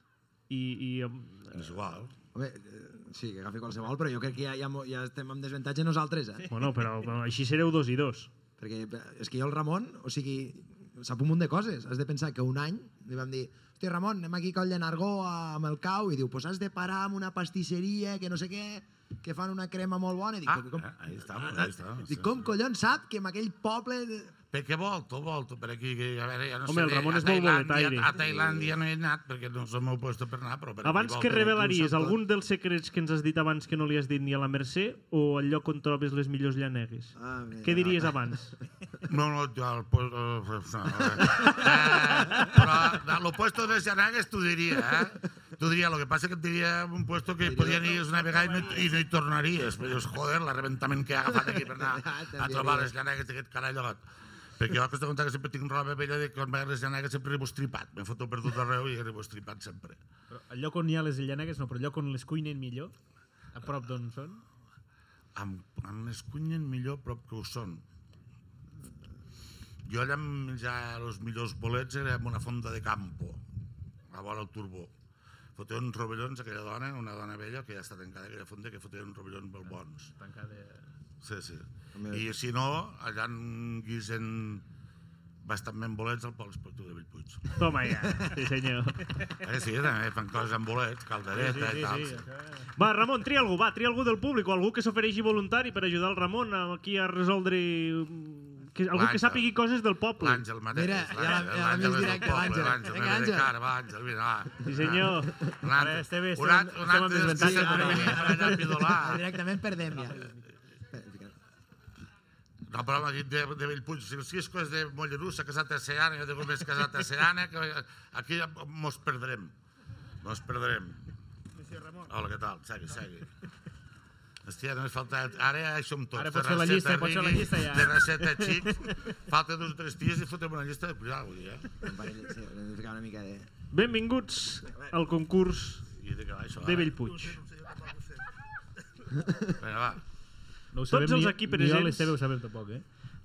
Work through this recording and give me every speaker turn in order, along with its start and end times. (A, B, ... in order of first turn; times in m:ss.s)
0:00.5-0:01.8 A
0:01.5-0:02.1 B
0:02.3-0:06.5 C
0:06.5-0:08.3 A
0:08.6-0:24.3 C
0:20.5-0:22.4 B
0:24.5-0:31.5 B
0:26.7-0:28.1 A
0:28.2-0:28.7 C
0:30.8-0:38.6 A
0:31.3-0:32.2 C
0:37.2-0:38.1 C
0:39.1-0:54.0 B
0:47.4-0:48.1 C
0:51.5-0:52.9 C
0:54.6-1:00.0 B
1:00.3-1:02.9 D
1:03.5-1:04.4 D
1:05.4-1:07.8 B
1:09.8-1:13.4 B
1:14.1-1:14.9 B
1:15.6-1:20.1 B
1:20.2-1:20.9 D
1:21.2-1:24.6 B
1:21.9-1:22.3 C
1:25.4-1:27.6 B
1:27.5-1:29.0 A
1:29.4-1:32.2 B
1:31.3-1:32.7 D
1:32.8-1:40.4 A
1:38.9-1:39.5 B
1:40.2-1:49.2 B
1:40.7-1:43.5 C
1:44.6-1:45.4 A
1:45.7-1:48.5 D
1:47.3-1:50.3 C
1:50.9-1:51.3 C
1:52.7-1:59.5 B
2:00.2-2:01.1 B
2:02.1-2:03.3 B
2:04.4-2:11.7 B
2:06.2-2:08.7 D
2:11.8-2:13.5 C
2:13.7-2:15.9 A
2:16.0-2:17.0 B
2:16.6-2:17.4 A
2:19.6-2:20.0 B
2:20.7-2:22.8 D
2:20.9-2:22.2 A